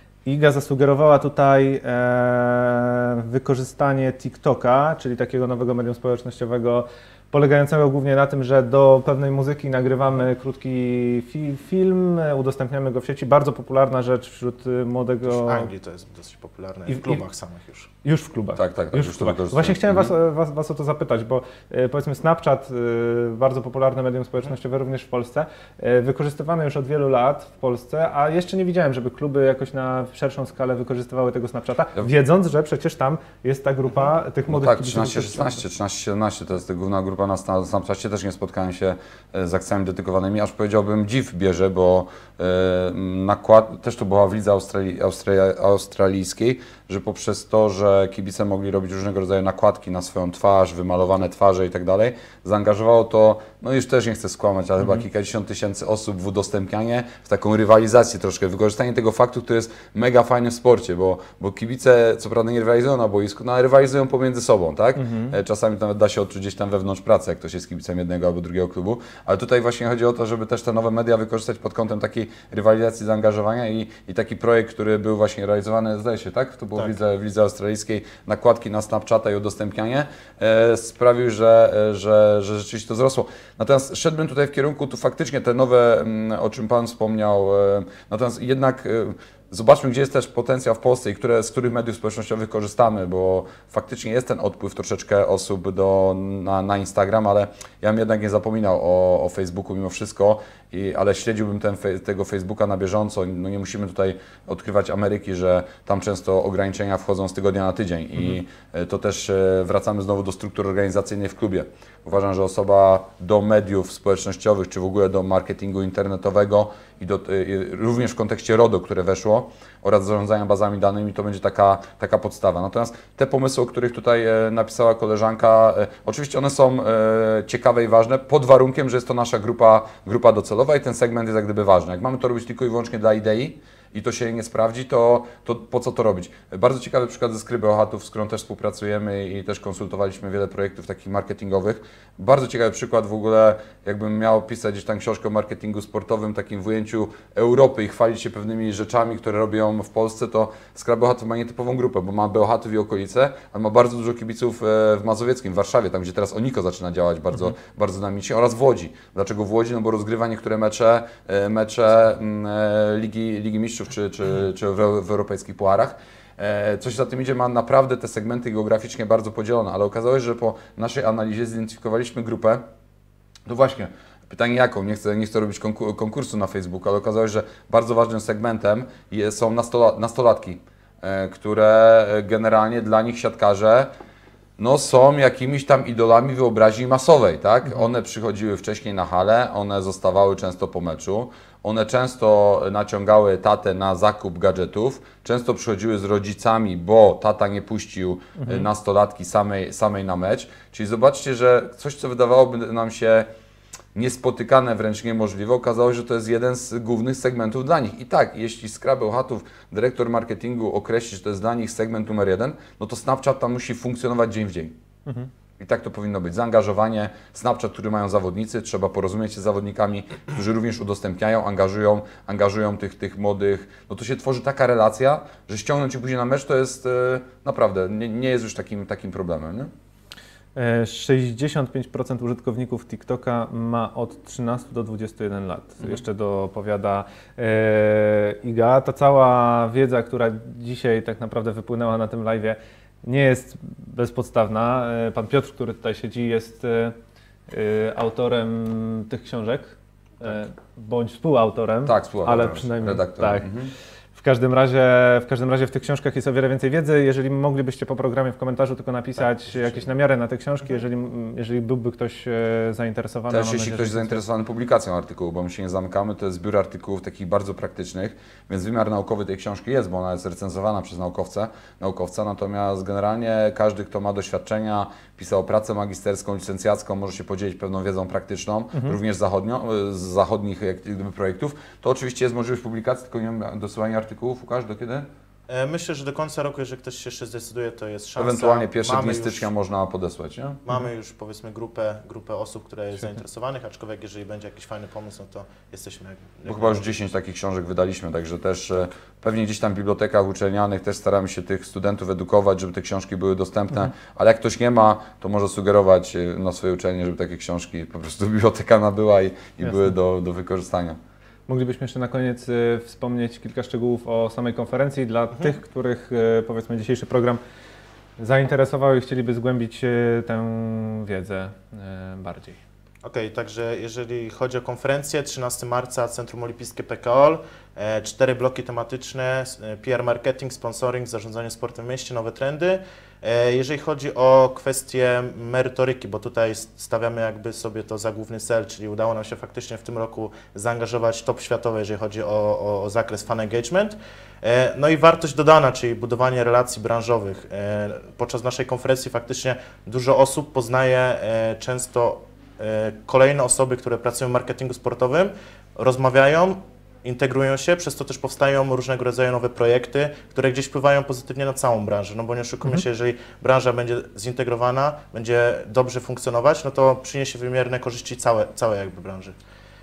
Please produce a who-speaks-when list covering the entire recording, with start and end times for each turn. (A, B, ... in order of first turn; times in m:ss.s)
0:00.2-0:15.7 A
0:15.3-0:17.9 B
0:16.9-0:17.2 A
0:18.0-0:35.6 A
0:18.6-0:20.1 C
0:34.5-2:52.6 C
1:05.0-1:05.3 A
2:53.4-3:03.9 C
3:04.6-3:23.3 C
3:18.4-3:18.6 A
3:23.9-3:34.7 C
3:35.6-3:49.7 C
3:50.5-4:06.9 A
4:07.5-4:13.5 A
4:11.8-4:13.7 C
4:14.1-4:24.2 A
4:23.3-4:45.1 C
4:45.5-4:49.5 B
4:48.2-4:50.6 C
4:50.6-4:56.8 B
4:56.4-5:11.0 C
5:09.6-5:09.9 A
5:11.5-5:17.4 A
5:18.2-5:22.6 A
5:23.0-6:09.4 B